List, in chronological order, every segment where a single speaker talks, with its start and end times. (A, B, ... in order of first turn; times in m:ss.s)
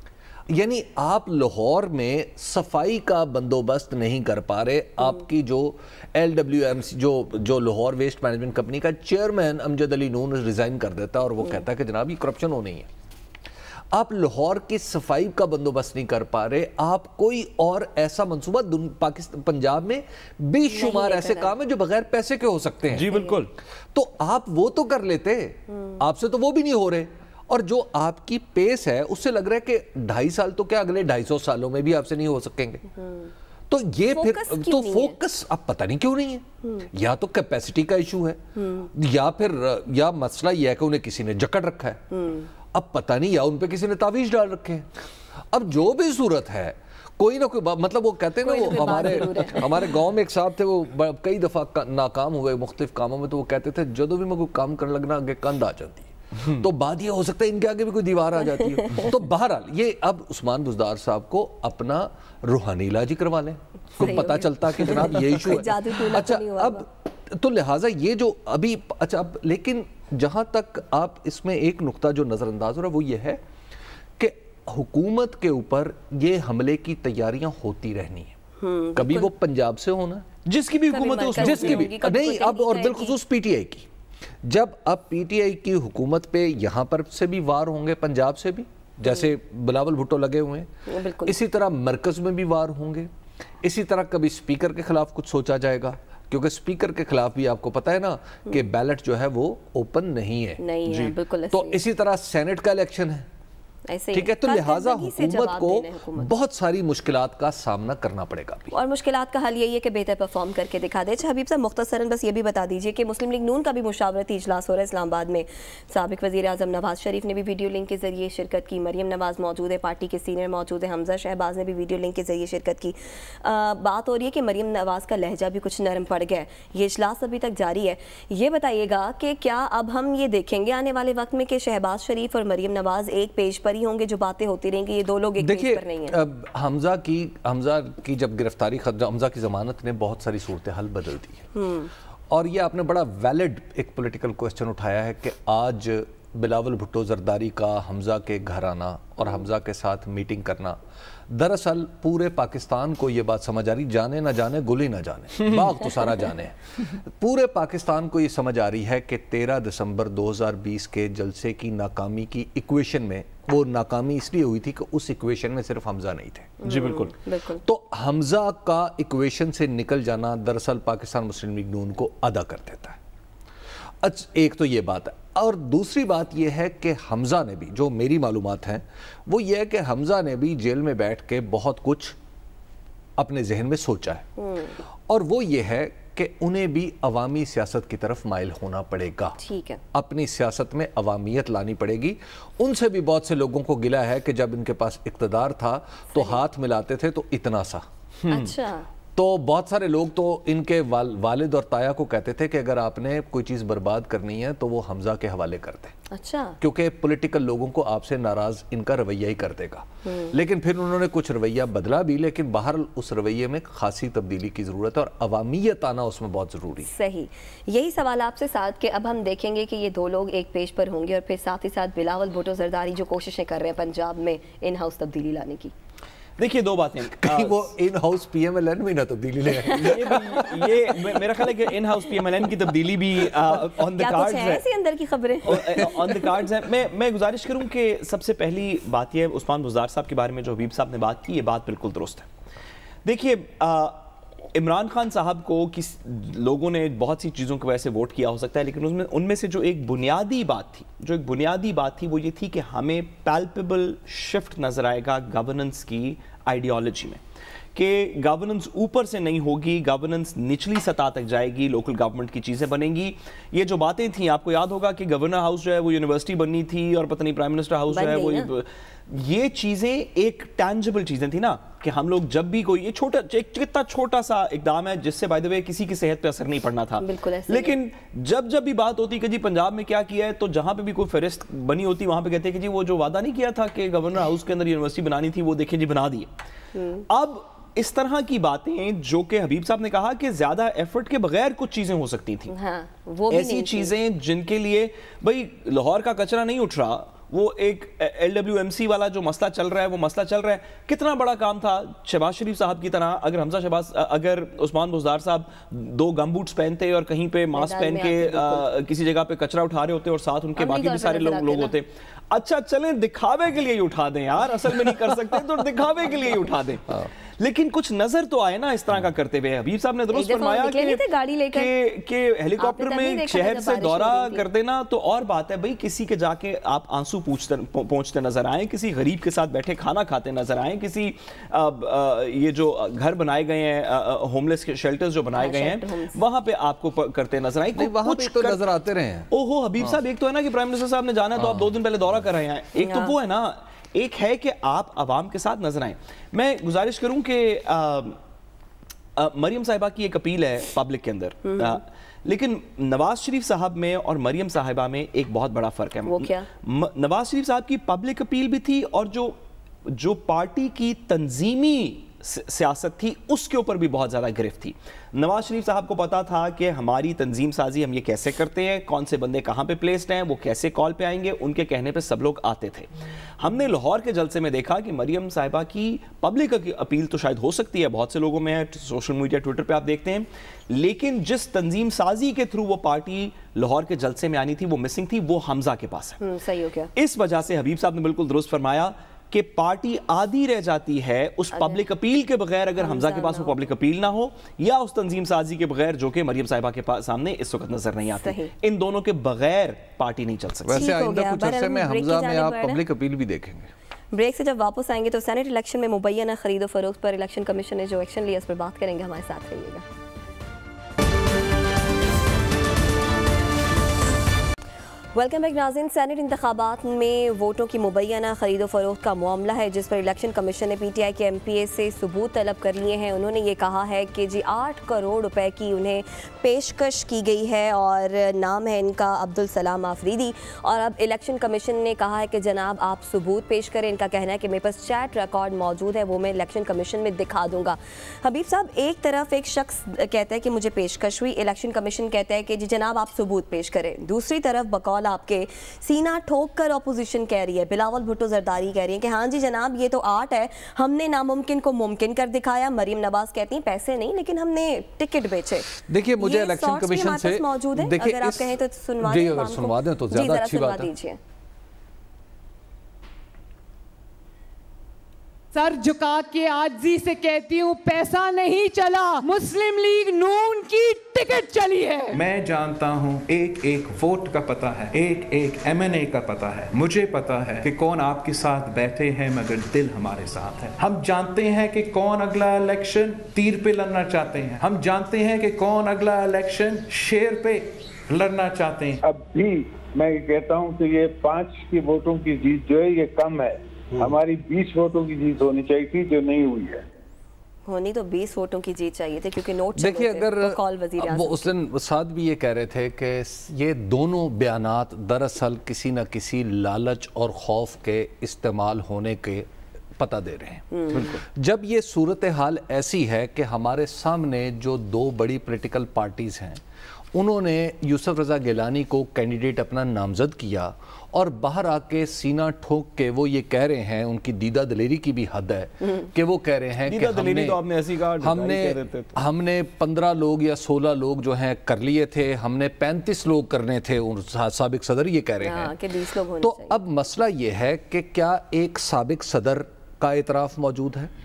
0:00.5-0:12.9 A
0:13.9-0:23.2 A
0:20.7-0:21.5 B
0:22.9-0:23.5 C
0:23.1-0:23.4 B
0:23.9-0:32.9 A
0:33.0-0:33.3 B
0:33.7-0:38.4 A
0:34.1-0:35.2 B
0:36.6-0:36.9 B
0:38.6-0:38.9 B
0:38.9-0:42.0 A
0:42.1-0:42.5 B
0:42.7-0:44.9 A
0:45.5-1:13.4 A
0:48.4-0:49.9 B
0:58.6-0:59.1 B
1:04.0-1:06.8 B
1:14.2-1:18.3 A
1:18.6-1:19.3 B
1:19.0-1:20.3 A
1:20.4-1:21.9 C
1:20.9-1:23.2 B
1:21.4-1:23.9 A
1:24.4-1:30.7 A
1:30.9-1:31.4 B
1:31.2-1:33.1 A
1:33.6-1:43.3 A
1:40.6-1:41.8 B
1:43.9-1:46.4 B
1:44.1-1:48.8 A
1:48.7-2:16.2 B
2:15.4-2:21.5 A
2:21.6-2:21.9 B
2:22.3-2:30.8 A
2:31.3-2:46.6 A
2:46.6-2:47.6 B
2:46.6-2:47.1 C
2:47.6-2:53.0 A
2:54.0-3:02.2 A
3:03.2-3:04.3 A
3:04.4-3:04.8 B
3:05.1-3:09.4 A
3:09.4-3:09.8 B
3:09.9-3:17.9 A
3:16.1-3:16.4 B
3:18.2-3:18.5 C
3:18.3-3:18.9 B
3:19.2-3:26.0 A
3:26.1-3:26.6 B
3:26.6-3:36.9 A
3:30.0-3:30.4 B
3:36.8-3:45.7 B
3:46.4-3:47.7 C
3:47.2-3:51.5 A
3:49.7-3:54.6 C
3:54.0-3:56.3 B
3:55.4-4:02.3 C
4:03.0-4:17.2 C
4:17.8-4:46.3 C
4:27.9-4:28.5 B
4:37.0-4:37.8 B
4:46.8-4:47.1 B
4:47.1-4:52.5 C
4:52.5-4:53.9 B
4:53.3-5:38.6 C
5:07.5-5:08.7 B
5:10.6-5:11.8 B
5:20.1-5:21.7 B
5:22.6-5:24.4 B
5:35.4-5:36.2 B
5:37.8-5:39.3 A
5:39.3-5:48.2 C
5:41.4-5:41.7 A
5:42.8-5:43.1 B
5:49.2-6:26.2 C
5:51.5-5:51.8 B
5:56.1-5:56.5 B
6:26.2-6:26.9 B
6:27.0-6:40.9 C
6:31.5-6:31.8 B
6:32.8-6:33.5 B
6:38.2-6:38.5 B
6:40.6-6:43.7 A
6:40.8-6:42.8 B
6:44.1-6:49.8 B
6:55.1-7:41.2 B
7:35.7-7:40.9 A
7:45.5-7:52.2 D
7:52.1-8:09.0 E
8:09.0-8:16.8 F
8:17.7-8:21.5 B
8:19.8-8:36.6 A
8:30.7-8:31.2 B
8:37.1-8:47.6 A
8:46.9-8:49.2 C
8:48.2-8:55.8 A
8:55.4-8:56.8 B
8:56.4-9:01.1 A